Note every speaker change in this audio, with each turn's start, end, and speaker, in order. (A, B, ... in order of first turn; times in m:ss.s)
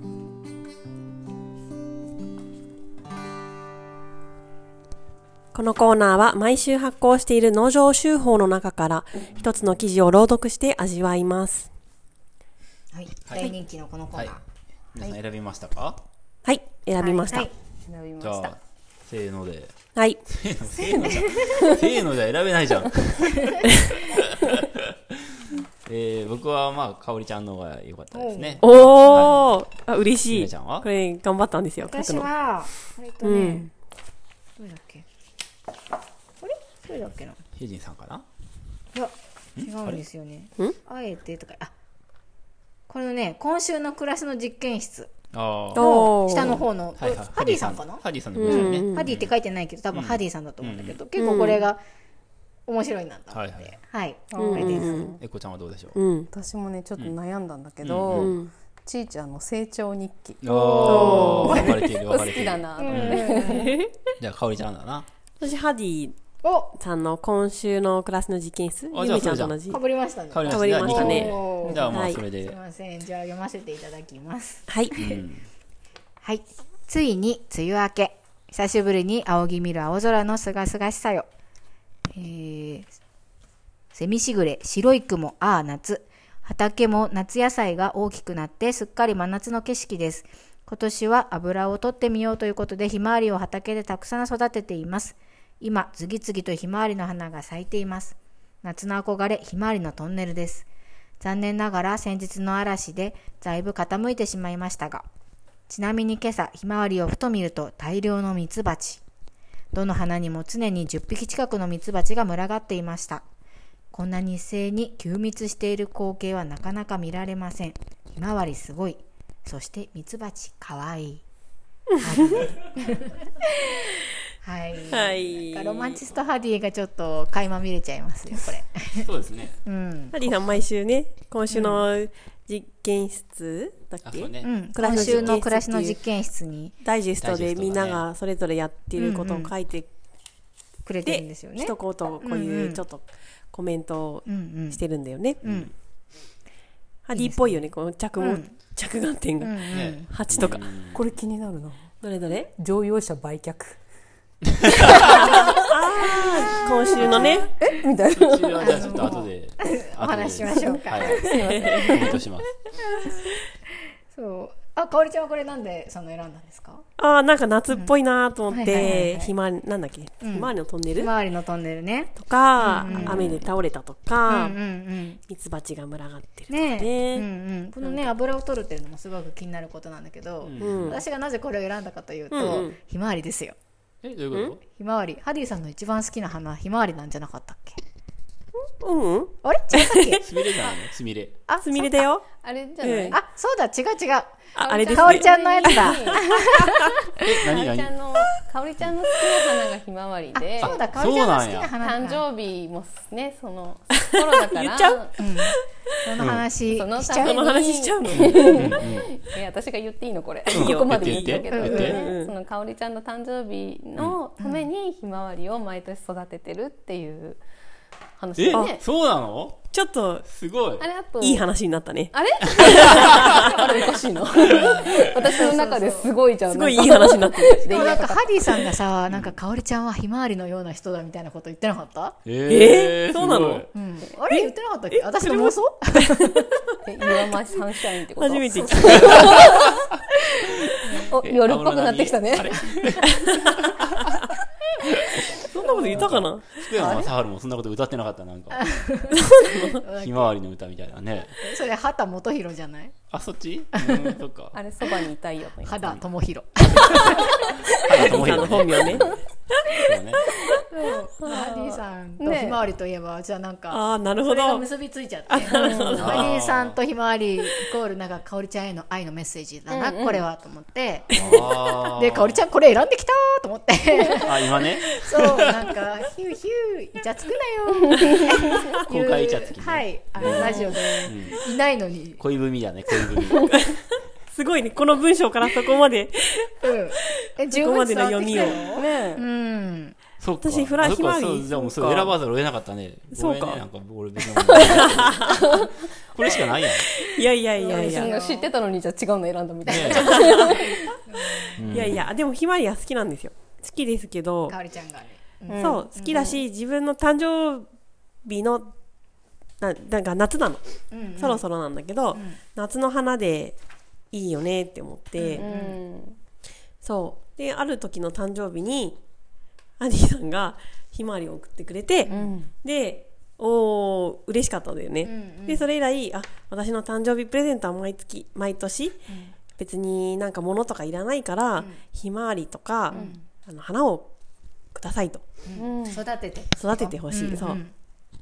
0:05.5-0:11.7 A
0:12.9-0:14.4 B
0:13.3-0:13.5 C
0:14.9-0:16.0 C
0:16.4-0:17.5 A
0:17.0-0:17.5 B
0:17.9-0:18.6 D
0:18.2-0:19.7 C
0:20.0-0:20.2 A
0:20.3-0:23.7 C
0:20.8-0:21.7 D
0:21.1-0:21.5 B
0:24.5-0:24.8 C
0:25.9-0:29.5 C
0:28.1-0:28.6 B
0:28.6-0:32.3 A
0:30.3-0:30.9 C
0:31.9-0:33.7 B
0:33.2-0:33.7 A
0:34.6-0:35.0 B
0:36.4-0:37.4 B
0:37.6-0:38.2 C
0:38.9-0:41.7 B
0:39.6-0:40.0 C
0:42.9-0:45.1 B
0:45.3-0:45.9 C
0:45.8-0:46.6 A
0:45.8-0:51.8 B
0:47.0-0:49.3 C
0:48.4-0:49.1 A
0:49.9-0:51.0 C
0:51.2-0:51.6 A
0:52.7-0:55.1 B
0:53.3-0:53.8 C
0:54.3-0:55.2 D
0:54.4-0:55.2 A
0:55.2-0:56.0 C
0:56.0-0:56.3 A
0:56.3-1:03.7 D
0:57.8-0:58.4 C
0:58.1-0:58.5 A
1:00.4-1:03.3 C
1:00.5-1:01.7 B
1:00.8-1:01.8 A
1:02.8-1:03.7 B
1:03.4-1:04.0 A
1:04.2-1:05.1 C
1:05.4-1:06.2 A
1:06.4-1:06.7 B
1:06.7-1:09.8 A
1:08.9-1:09.6 C
1:09.7-1:15.2 B
1:10.3-1:12.6 C
1:10.4-1:12.2 A
1:14.7-1:14.9 A
1:15.0-1:15.5 C
1:16.2-1:21.3 B
1:22.1-1:22.9 B
1:23.9-1:40.7 B
1:41.2-1:45.1 B
1:45.7-1:49.0 B
1:49.7-1:53.2 B
1:53.9-2:01.2 B
2:02.0-2:03.8 B
2:04.4-2:09.1 B
2:04.9-2:06.0 A
2:09.0-2:09.6 C
2:09.6-2:10.6 B
2:10.1-2:16.0 A
2:14.0-2:15.4 C
2:14.4-2:16.8 B
2:16.8-2:19.9 A
2:17.2-2:18.0 C
2:19.0-2:19.5 B
2:20.9-2:22.8 B
2:21.0-2:25.4 A
2:24.3-2:24.8 B
2:25.4-2:25.7 B
2:25.4-2:25.7 C
2:27.1-2:30.7 A
2:27.1-2:28.6 B
2:29.4-2:30.1 B
2:29.7-2:31.0 C
2:30.9-2:33.8 D
2:32.0-2:32.5 A
2:34.8-2:35.3 D
2:35.2-2:37.5 A
2:37.0-2:37.4 B
2:37.6-2:39.0 D
2:38.1-2:42.5 C
2:38.6-2:41.9 B
2:40.6-2:42.2 D
2:41.5-2:41.9 A
2:42.9-2:43.5 B
2:44.1-2:46.8 B
2:47.0-2:51.1 A
2:48.5-2:49.4 B
2:50.2-2:53.4 B
2:52.2-2:54.6 A
2:54.2-2:55.2 B
2:55.3-2:57.3 A
2:56.5-3:03.6 B
2:57.8-2:58.0 A
3:00.4-3:01.0 C
3:00.6-3:01.0 A
3:02.3-3:02.8 A
3:04.0-3:04.6 C
3:04.7-3:07.8 B
3:08.6-3:10.2 A
3:09.4-3:10.3 B
3:10.2-3:11.4 C
3:11.5-3:12.0 B
3:11.5-3:12.3 A
3:12.4-3:13.2 D
3:12.8-3:13.2 A
3:13.1-3:14.4 B
3:14.6-3:16.1 A
3:14.6-3:16.2 D
3:14.9-3:16.9 B
3:17.2-3:18.0 C
3:17.5-3:20.8 D
3:20.4-3:22.2 B
3:20.6-3:21.7 C
3:21.8-3:25.1 D
3:24.0-3:25.7 A
3:25.2-3:27.5 B
3:26.2-3:26.5 C
3:26.7-3:37.4 D
3:27.2-3:28.8 A
3:28.1-3:29.1 C
3:30.5-3:32.3 A
3:30.5-3:32.0 C
3:31.5-3:32.1 B
3:38.2-3:38.8 D
3:38.4-3:39.6 C
3:39.7-3:40.3 A
3:40.3-3:40.8 C
3:40.8-3:41.5 D
3:41.2-3:42.1 A
3:42.1-3:48.3 D
3:42.6-3:43.5 C
3:43.0-3:43.5 A
3:44.5-3:45.2 C
3:44.5-3:46.1 B
3:46.5-3:47.8 A
3:47.6-3:52.2 B
3:49.1-3:49.4 C
3:52.2-3:53.7 C
3:52.5-3:53.7 A
3:53.7-3:56.8 B
3:54.3-3:56.2 A
3:56.8-3:59.8 D
3:58.2-3:59.2 A
3:58.5-3:59.5 B
4:00.8-4:01.1 B
4:01.0-4:02.7 D
4:01.2-4:04.2 C
4:05.4-4:06.6 A
4:05.6-4:06.0 B
4:05.9-4:08.7 C
4:06.8-4:07.1 B
4:08.5-4:10.3 B
4:09.3-4:09.7 A
4:10.0-4:11.4 C
4:11.4-4:12.9 B
4:13.1-4:14.6 C
4:13.8-4:14.1 B
4:14.5-4:15.8 D
4:15.6-4:18.2 B
4:16.8-4:17.2 C
4:17.8-4:19.2 C
4:18.0-4:19.1 A
4:19.8-4:20.3 C
4:20.7-4:42.2 B
4:21.3-4:22.6 D
4:23.7-4:24.7 A
4:25.3-4:26.2 A
4:25.6-4:26.0 D
4:26.0-4:26.8 C
4:29.7-4:30.3 D
4:31.1-4:32.4 C
4:34.2-4:35.5 C
4:38.7-4:41.4 C
4:40.3-4:40.7 A
4:42.2-4:43.6 C
4:43.3-4:48.7 A
4:46.6-4:50.0 B
4:48.8-4:49.2 D
4:50.2-4:56.9 C
4:50.4-4:52.2 A
4:53.1-4:53.6 A
4:54.4-4:55.7 D
4:54.5-4:55.4 A
4:56.6-4:58.1 A
4:57.6-5:00.7 D
4:57.6-4:58.5 B
4:59.7-5:00.5 C
4:59.7-5:01.6 B
5:01.6-5:02.0 C
5:01.7-5:04.6 A
5:04.5-5:06.4 B
5:05.5-5:05.8 D
5:05.6-5:07.7 A
5:08.2-5:08.7 A
5:09.6-5:10.6 A
5:10.9-5:11.5 B
5:11.2-5:13.6 A
5:12.1-5:12.4 B
5:14.1-5:15.5 A
5:15.2-5:15.8 B
5:15.4-5:16.2 D
5:16.8-5:19.0 A
5:19.8-5:29.0 A
5:22.1-5:22.3 B
5:22.1-5:22.5 D
5:25.0-5:25.7 B
5:29.1-5:29.4 B
5:29.6-5:34.1 A
5:32.9-5:33.2 B
5:32.9-5:33.2 D
5:34.7-5:35.2 A
5:35.4-5:37.7 B
5:35.6-5:36.0 D
5:36.6-5:37.6 A